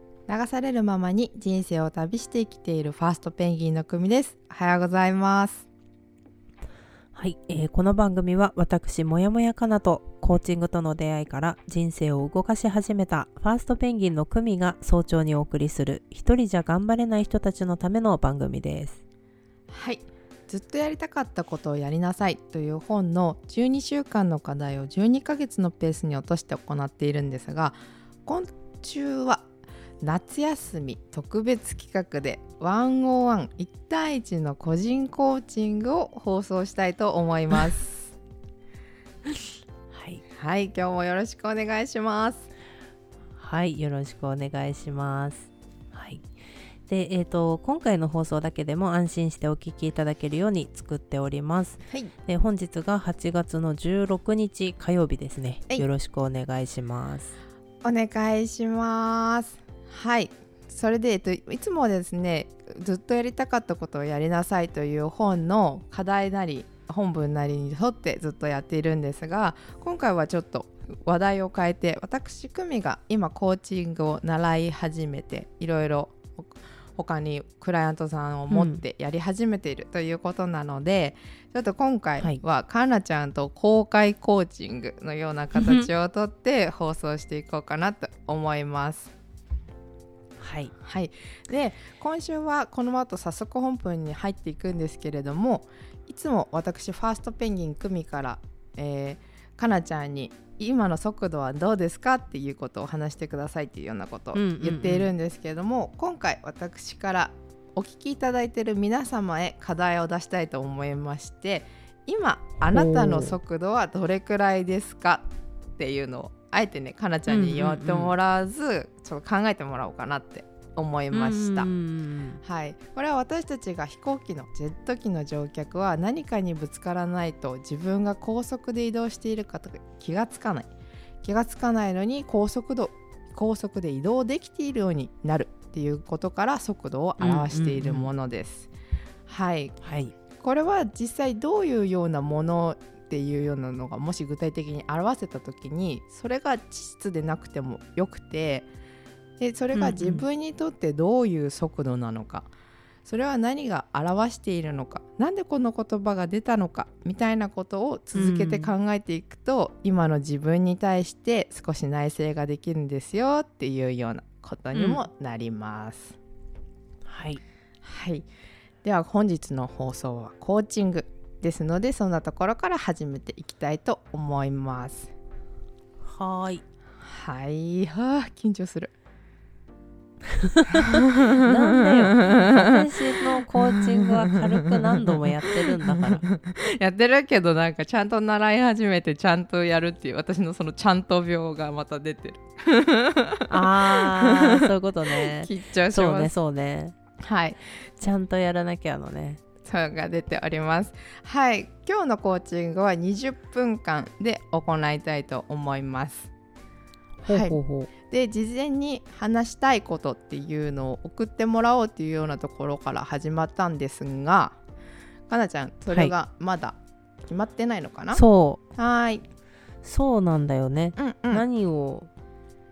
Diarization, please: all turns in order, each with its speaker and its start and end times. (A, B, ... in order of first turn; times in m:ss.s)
0:00.3-0:05.6 A
0:07.1-0:19.0 B
0:19.7-0:29.5 A
0:30.0-0:38.1 A
0:39.9-0:40.2 B
0:40.3-0:42.5 A
0:43.4-0:46.3 B
0:46.9-0:57.3 B
0:57.8-1:29.1 A
1:18.5-1:18.8 B
1:25.6-1:25.9 B
1:30.4-1:30.7 B
1:30.8-1:55.2 A
1:44.3-1:45.1 B
1:52.7-1:53.4 B
1:55.8-2:01.7 A
1:57.3-1:58.1 B
2:01.1-2:02.4 B
2:02.4-2:10.7 A
2:11.2-2:18.7 A
2:17.2-2:18.1 B
2:19.3-2:19.8 A
2:19.8-2:20.1 B
2:20.4-2:28.7 A
2:29.4-2:32.5 A
2:29.7-2:30.2 B
2:33.0-2:46.2 A
2:38.1-2:38.7 B
2:44.7-2:45.0 B
2:47.0-2:47.4 B
2:47.8-2:48.3 A
2:48.8-2:55.1 A
2:56.0-2:56.6 B
2:57.0-2:58.9 A
3:00.3-3:06.3 B
3:00.7-3:02.8 A
3:03.5-3:16.3 A
3:13.5-3:17.0 B
3:17.2-3:17.6 A
3:18.0-3:19.4 B
3:19.6-3:26.3 A
3:27.2-3:27.9 B
3:27.2-3:34.6 A
3:35.3-3:38.2 A
3:38.1-3:38.6 B
3:38.8-3:39.2 A
3:39.8-3:42.1 B
3:41.0-3:41.4 A